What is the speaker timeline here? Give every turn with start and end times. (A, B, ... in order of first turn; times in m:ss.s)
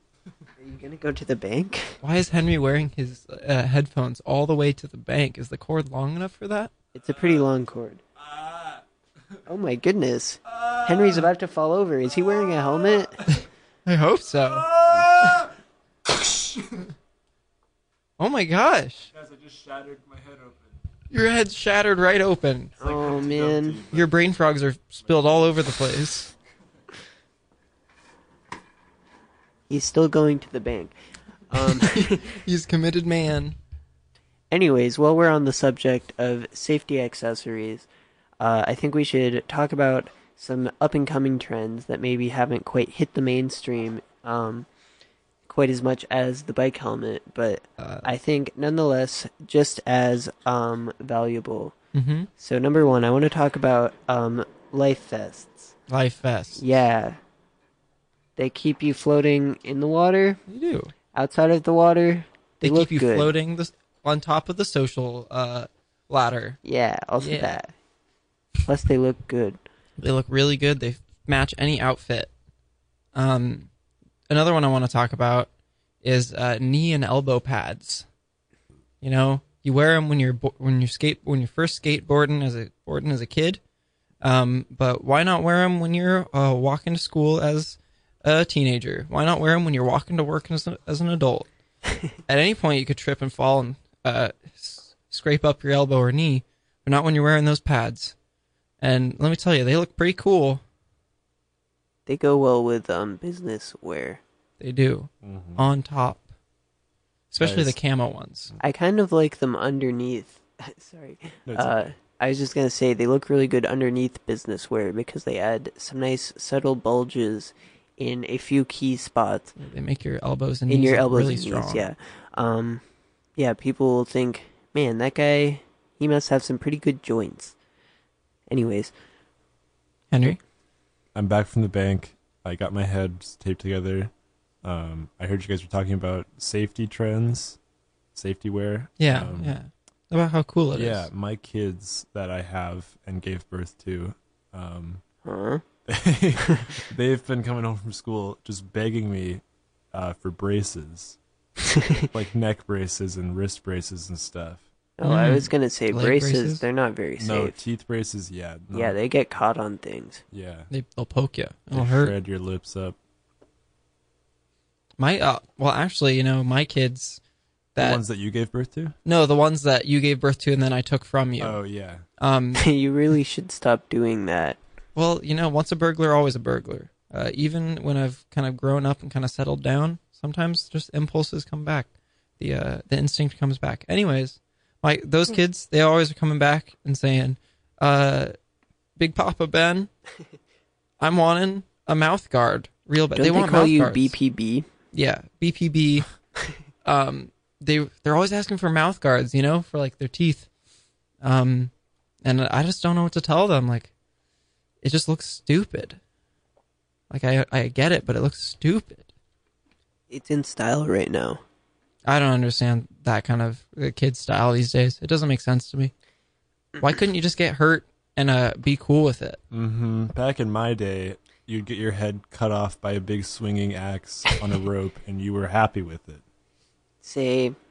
0:00.6-0:02.0 A
0:02.0-0:06.7 B
0:07.0-0:08.0 A
0:08.2-0:08.8 C
0:09.5-0:13.2 A
0:10.6-0:11.2 C
0:13.9-0:14.7 B
0:14.6-0:15.5 C
0:16.1-0:16.9 C
0:18.2-0:19.1 B
0:19.1-0:20.8 C
0:21.1-0:22.8 B
0:22.8-0:24.2 C
0:22.8-0:23.8 A
0:23.9-0:26.3 B
0:25.0-0:25.3 C
0:29.7-0:30.9 A
0:31.5-0:32.4 A
0:32.2-0:33.6 B
0:34.5-0:37.9 A
0:38.4-0:44.7 A
0:45.5-0:51.8 A
0:47.8-0:48.1 B
0:51.9-0:52.3 B
0:52.4-0:55.7 A
0:55.9-0:56.6 B
0:56.6-0:57.2 A
0:58.4-1:00.4 A
1:00.5-1:00.9 B
1:01.1-1:03.3 A
1:02.6-1:06.6 B
1:06.6-1:07.7 A
1:07.2-1:07.6 B
1:08.6-1:09.6 A
1:10.0-1:12.3 B
1:13.2-1:13.7 B
1:14.3-1:15.5 B
1:16.0-1:18.1 B
1:19.0-1:23.6 B
1:24.2-1:31.5 B
1:32.3-1:38.2 B
1:38.8-1:40.6 B
1:42.1-1:44.2 A
1:44.6-1:46.2 B
1:45.2-1:45.6 C
1:47.3-1:48.5 B
1:47.4-1:47.8 C
1:48.6-1:59.5 A
1:51.5-1:51.9 C
1:59.6-2:01.9 B
2:00.7-2:02.8 A
2:03.4-2:07.6 A
2:08.5-2:08.9 A
2:10.1-2:10.4 B
2:11.1-2:14.1 C
2:14.6-2:17.6 C
2:18.2-2:19.6 C
2:19.0-2:21.1 B
2:20.7-2:25.0 C
2:25.2-2:25.6 A
2:25.9-2:29.4 C
2:29.9-2:31.2 C
2:31.7-2:32.1 A
2:32.1-2:34.6 C
2:35.0-2:37.6 A
2:35.0-2:36.6 B
2:37.2-2:39.0 C
2:38.7-2:40.2 A
2:40.3-2:40.7 C
2:40.7-2:42.1 B
2:41.7-2:43.0 C
2:45.0-2:47.2 B
2:47.8-2:48.0 B
2:47.8-2:49.0 C
2:49.0-2:51.6 B
2:51.4-2:52.0 C
2:52.2-2:52.7 B
2:52.6-2:54.6 A
2:55.0-3:08.3 B
3:09.0-3:09.9 B
3:11.0-3:14.2 B
3:13.2-3:14.7 A
3:14.9-3:16.1 B
3:16.8-3:20.5 B
3:21.2-3:21.7 B
3:22.2-3:23.9 B
3:24.8-3:26.0 B
3:27.1-3:29.1 B
3:30.1-3:31.4 A
3:32.1-3:35.9 B
3:36.8-3:39.4 B
3:39.5-3:46.2 C
3:47.0-3:47.6 A